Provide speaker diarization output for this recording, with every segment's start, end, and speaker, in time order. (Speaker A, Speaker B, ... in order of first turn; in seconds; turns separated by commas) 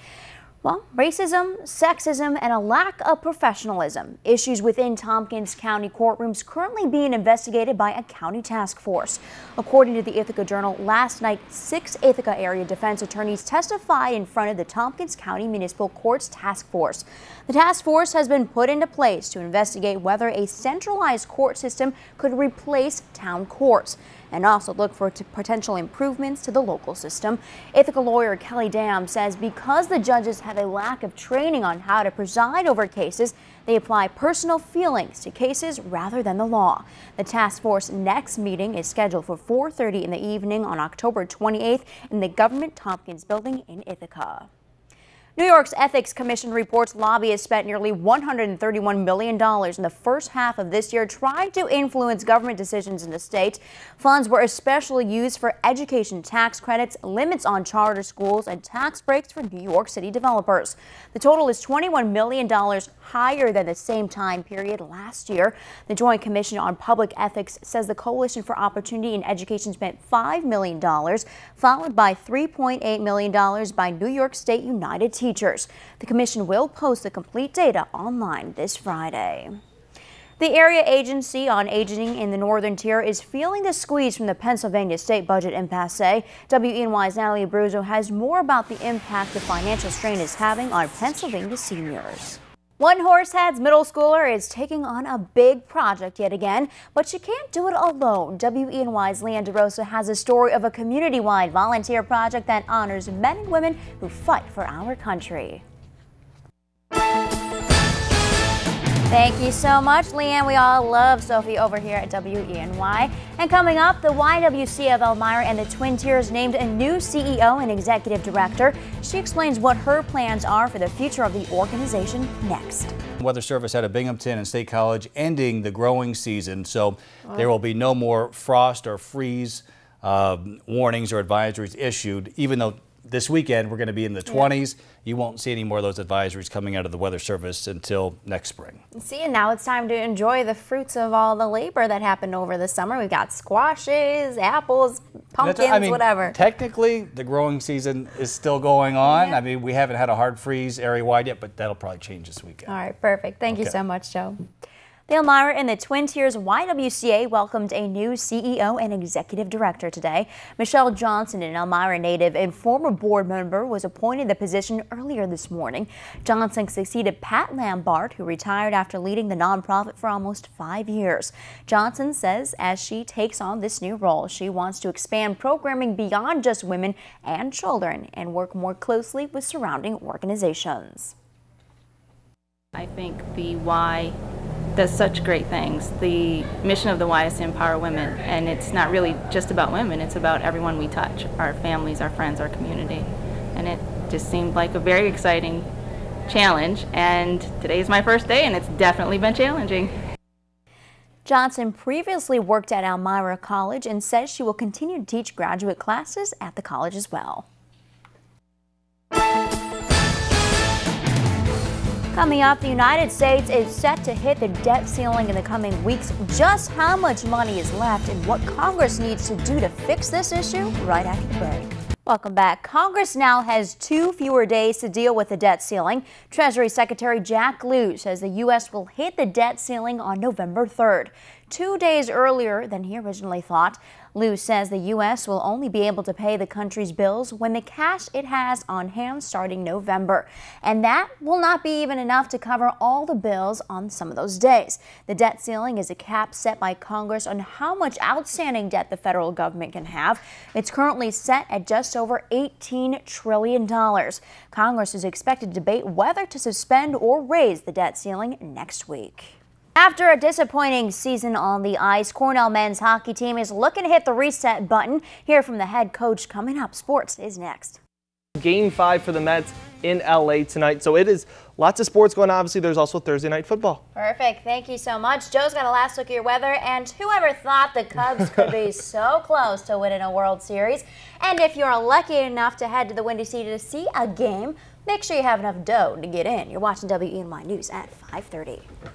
Speaker A: 0.6-44.5, Speaker A: 45.4-79.6, Speaker A: 80.4-105.6, Speaker A: 109.1-122.9, Speaker B: 123.2-138.8, Speaker A: 138.9-146.4, Speaker B: 145.4-152.8, Speaker A: 149.1-149.4, Speaker A: 152.7-154.4, Speaker B: 153.5-153.8, Speaker A: 155.1-181.2, Speaker C: 182.8-184.2, Speaker C: 184.8-195.7, Speaker C: 196.3-199.9, Speaker A: 201.2-207.5, Speaker A: 212.1-267.8, Speaker D: 268.4-273.8, Speaker A: 274.0-288.6